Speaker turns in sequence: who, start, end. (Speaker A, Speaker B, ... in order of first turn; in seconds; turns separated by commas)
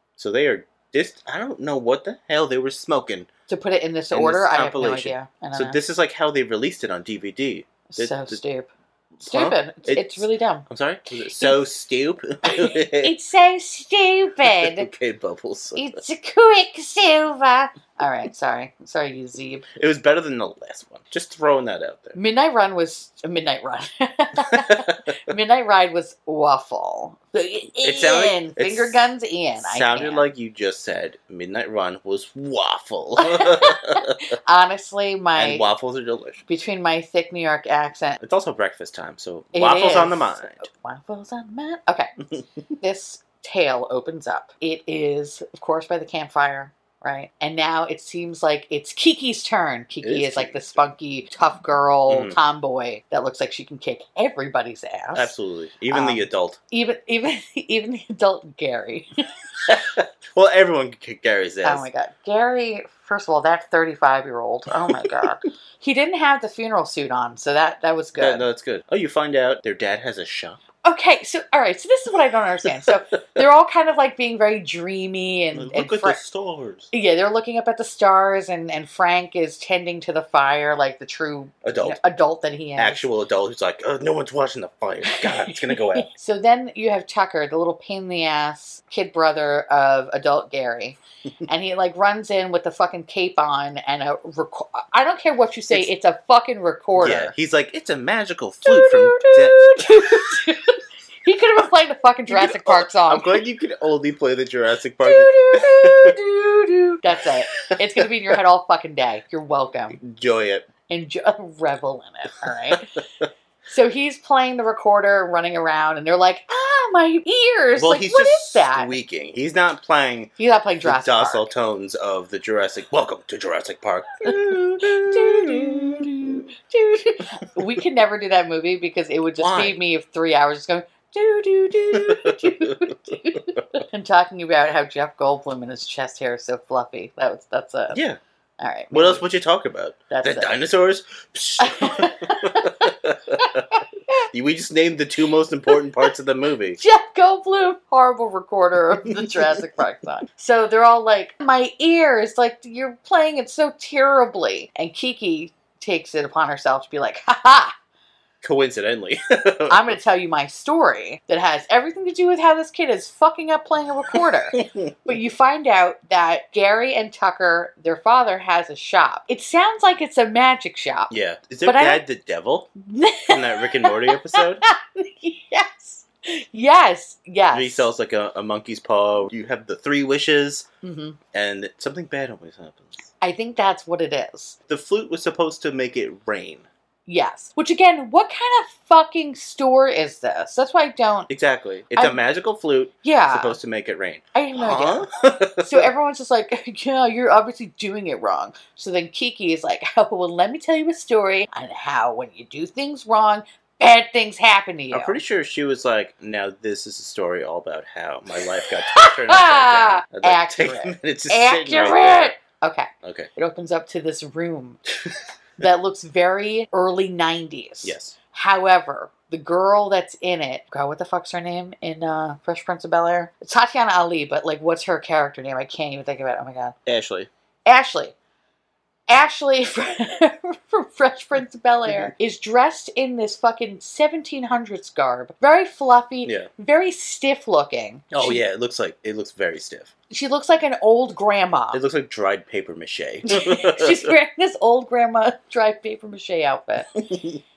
Speaker A: 0.2-3.3, Speaker B: 3.5-5.8, Speaker A: 4.1-8.4, Speaker B: 7.9-8.7, Speaker A: 9.2-13.1, Speaker B: 9.2-10.7, Speaker B: 11.3-11.6, Speaker B: 12.4-14.9, Speaker A: 14.4-16.0, Speaker B: 15.8-19.7, Speaker A: 19.8-22.2, Speaker B: 22.2-30.3, Speaker A: 24.4-25.2, Speaker A: 27.8-29.0, Speaker A: 29.6-34.4, Speaker B: 33.2-35.7, Speaker A: 35.4-36.4, Speaker B: 36.5-38.2, Speaker A: 38.2-40.7, Speaker B: 39.5-42.1, Speaker B: 42.8-55.3, Speaker A: 50.0-50.9, Speaker A: 52.1-52.4, Speaker A: 55.1-56.6, Speaker B: 55.9-59.1, Speaker A: 59.7-61.9, Speaker B: 61.6-68.5, Speaker A: 64.8-65.3, Speaker A: 68.2-70.6, Speaker B: 70.8-76.2, Speaker A: 75.5-76.9, Speaker B: 76.9-83.0, Speaker A: 81.6-82.0, Speaker A: 82.8-86.1, Speaker B: 85.1-97.3, Speaker A: 97.0-100.3, Speaker B: 98.7-103.4, Speaker A: 102.3-106.2, Speaker B: 105.0-110.0, Speaker A: 107.5-108.4, Speaker A: 110.0-110.7, Speaker B: 110.9-112.9, Speaker A: 112.7-113.3, Speaker B: 113.7-119.0, Speaker A: 117.8-126.5, Speaker B: 120.4-121.5, Speaker B: 124.2-138.0, Speaker A: 129.4-129.8, Speaker A: 131.9-133.8, Speaker A: 137.9-138.2, Speaker B: 138.6-139.2, Speaker A: 138.9-143.8, Speaker B: 140.1-140.5, Speaker B: 141.6-144.3, Speaker A: 144.3-146.8, Speaker B: 145.7-146.1, Speaker B: 146.8-157.7, Speaker A: 149.0-149.7, Speaker A: 158.4-160.0, Speaker B: 159.7-171.1, Speaker A: 164.5-164.9, Speaker A: 171.1-172.7, Speaker B: 171.7-172.0, Speaker B: 172.8-177.9, Speaker A: 173.3-174.7, Speaker A: 177.5-180.7, Speaker B: 180.8-181.2, Speaker A: 181.3-183.1, Speaker B: 183.2-184.6, Speaker A: 184.7-186.7, Speaker B: 187.1-191.3, Speaker A: 191.3-195.9, Speaker B: 193.0-193.6, Speaker B: 194.3-205.2, Speaker A: 204.9-212.4, Speaker B: 208.4-214.8, Speaker A: 213.0-213.3, Speaker B: 215.6-226.8, Speaker A: 217.8-218.2, Speaker A: 226.9-227.3, Speaker B: 227.7-228.1, Speaker B: 229.1-238.4, Speaker A: 231.9-232.1, Speaker A: 238.1-239.9, Speaker B: 240.1-241.8, Speaker A: 241.7-244.2, Speaker B: 243.3-246.9, Speaker A: 247.0-247.4